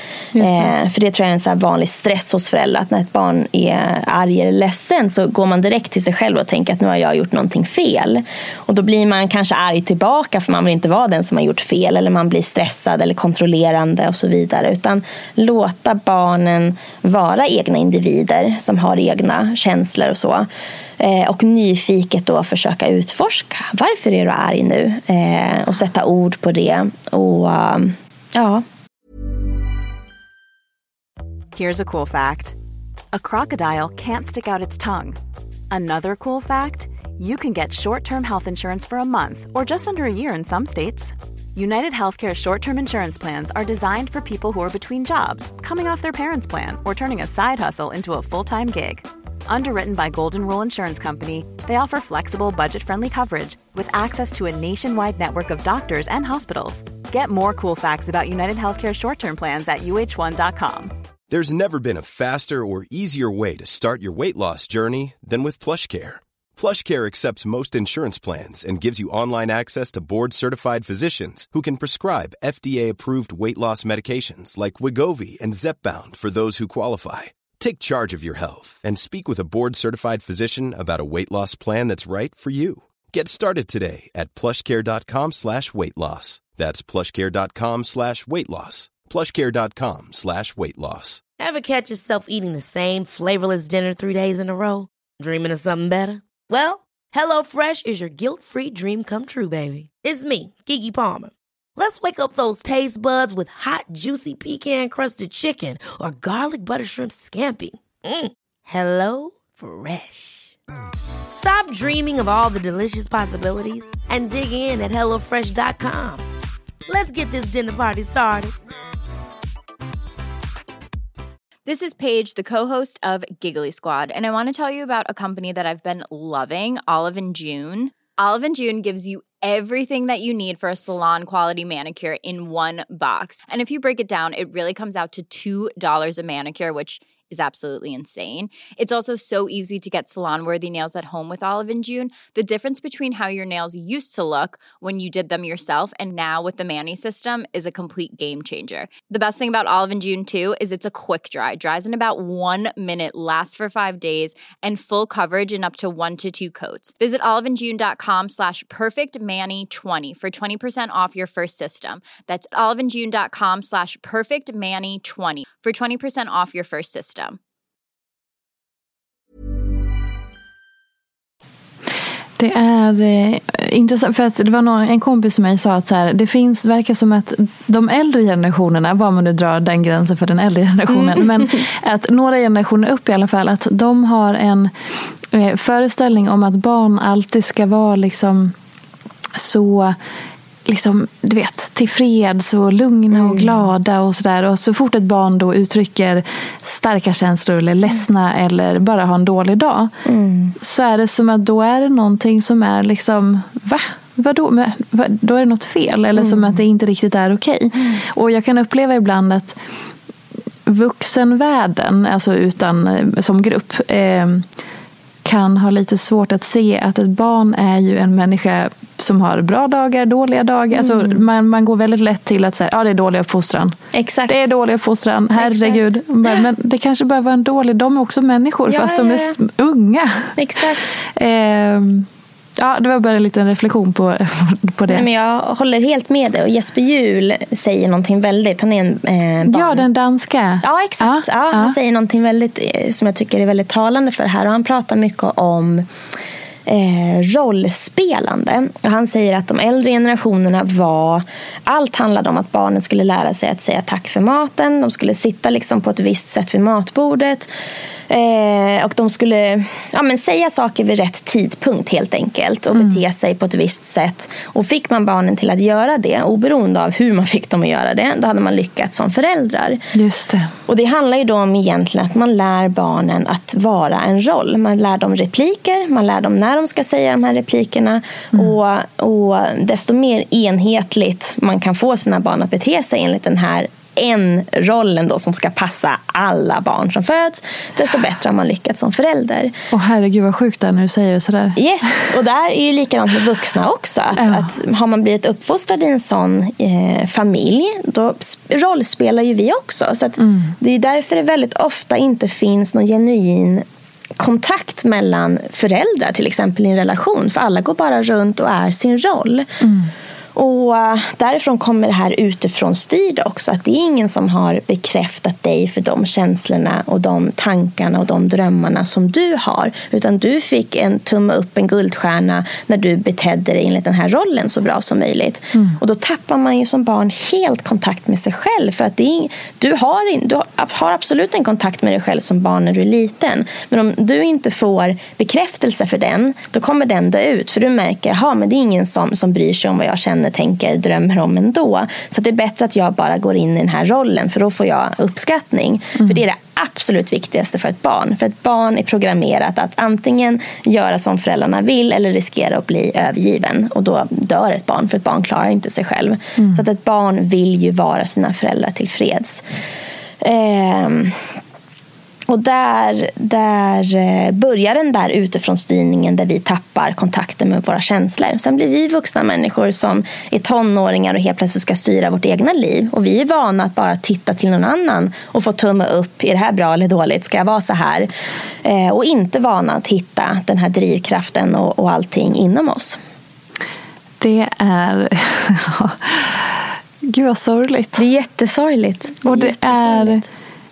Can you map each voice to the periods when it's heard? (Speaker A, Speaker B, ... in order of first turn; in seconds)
Speaker A: 0.3-0.7, 172.4-184.7, 185.3-188.5, 189.3-190.0, 190.7-199.9, 200.6-209.6, 210.7-214.4, 215.2-223.8, 224.3-230.3, 231.1-232.1, 232.6-235.1, 239.4-241.8, 269.9-270.5, 289.7-291.6, 294.2-294.5, 300.2-300.5, 309.6-309.9, 356.4-356.6, 384.2-388.0, 389.2-390.2
Speaker B: 0.4-20.5, 21.0-28.6, 180.9-181.5, 193.1-193.6, 200.0-200.5, 206.1-206.6, 220.7-221.2, 223.9-224.5, 225.3-225.9, 228.7-229.4, 230.3-231.1, 234.9-239.8, 240.6-245.9, 246.7-257.5, 258.1-269.8, 270.7-289.5, 291.6-303.6, 304.2-309.5, 310.3-359.4, 360.2-361.1, 362.3-378.1, 378.6-383.0, 387.9-390.2
Speaker C: 31.5-32.5, 33.1-35.2, 35.7-60.9
Speaker D: 61.3-91.2
Speaker E: 91.4-110.5, 111.3-116.3, 116.9-118.5
Speaker F: 121.7-167.4